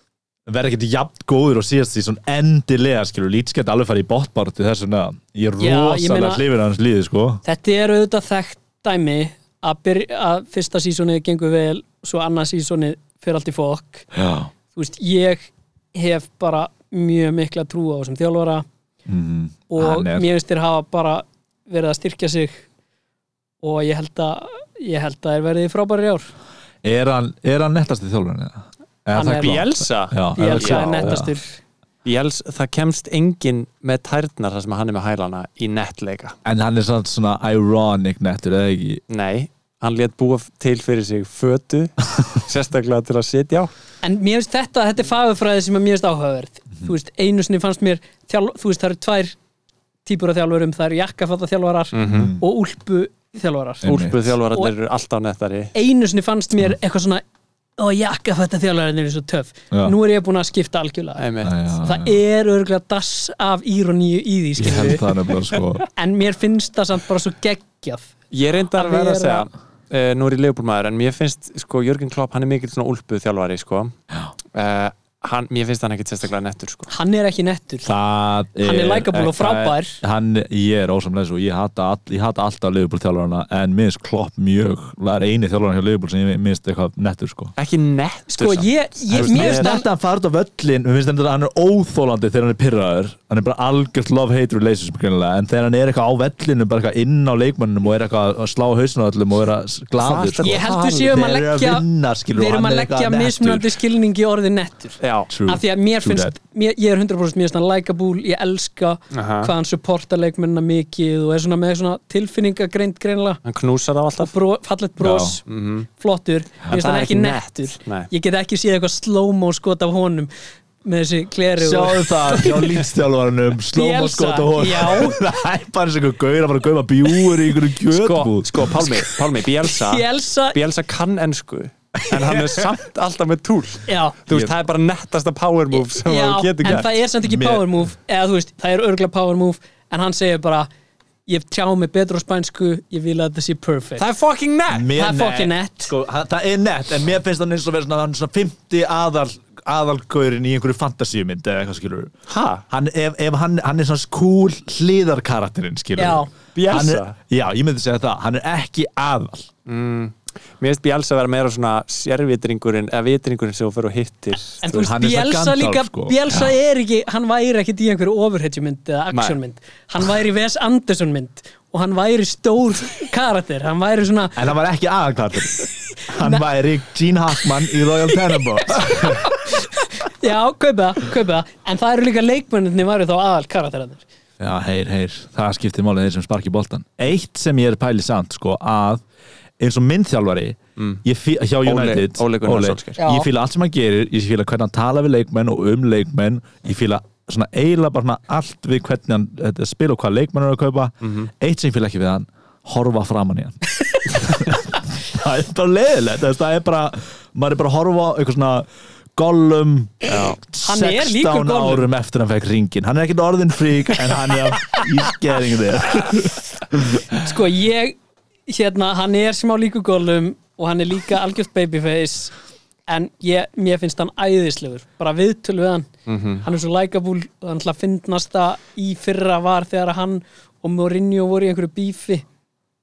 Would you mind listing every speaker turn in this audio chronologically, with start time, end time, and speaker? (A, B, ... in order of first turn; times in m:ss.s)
0:00.5-0:07.4 A
0:05.6-0:06.4 B
0:07.4-0:14.1 B
0:14.1-0:14.5 A
0:14.7-0:18.6 B
0:19.1-0:20.3 A
0:19.7-0:22.6 B
0:23.6-0:26.3 B
0:26.8-0:31.3 A
0:29.1-0:29.7 B
0:29.4-0:31.2 C
0:30.4-0:31.6 B
0:32.0-0:36.4 C
0:36.4-0:39.0 A
0:39.1-0:43.7 C
0:44.0-0:49.4 B
0:50.0-0:53.9 B
0:51.9-0:52.3 C
0:52.1-0:52.4 A
0:53.8-0:54.3 A
0:53.8-0:55.8 C
0:55.8-0:57.2 B
0:57.8-1:01.2 B
1:01.2-1:01.6 C
1:01.4-1:02.2 A
1:01.8-1:05.2 B
1:04.6-1:05.8 A
1:06.0-1:08.1 B
1:08.3-1:13.9 C
1:08.8-1:09.5 B
1:14.5-1:16.9 C
1:16.9-1:17.9 B
1:17.8-1:27.5 A
1:18.6-1:20.0 B
1:27.6-1:29.7 C
1:28.3-1:29.9 B
1:29.1-1:43.8 A
1:40.0-1:41.1 C
1:40.4-1:53.4 B
1:45.0-1:45.3 C
1:45.3-1:46.3 A
1:49.1-1:49.5 C
1:53.4-1:54.3 C
1:54.2-1:55.4 B
1:55.0-1:55.4 A
1:55.5-1:55.9 C
1:56.0-2:00.3 B
1:56.7-1:58.1 C
2:00.8-2:02.6 B
2:01.6-2:09.1 A
2:03.7-2:05.2 B
2:07.9-2:16.9 C
2:09.8-2:10.6 B
2:12.1-2:12.7 A
2:13.9-2:14.2 B
2:15.7-2:20.7 B
2:16.6-2:17.7 A
2:21.3-2:24.0 B
2:24.0-2:24.9 C
2:24.7-2:32.1 A
2:25.0-2:25.9 B
2:32.3-2:32.6 C
2:32.7-2:39.5 A
2:36.0-2:36.3 B
2:36.6-2:37.1 C
2:39.7-2:44.9 C
2:44.6-2:54.4 B
2:44.7-2:46.6 A
2:49.1-2:49.4 C
2:54.4-2:59.2 A
2:56.2-2:56.4 B
2:58.9-3:04.0 B
3:04.4-3:09.0 A
3:09.6-3:23.6 A
3:10.8-3:11.0 C
3:11.6-3:13.0 C
3:13.0-3:13.3 B
3:21.0-3:21.3 C
3:24.1-3:37.2 A
3:30.1-3:30.4 C
3:30.6-3:31.9 B
3:37.2-3:38.0 B
3:38.5-3:42.3 B
3:42.9-3:45.9 B
3:46.1-3:46.5 C
3:46.4-3:52.2 B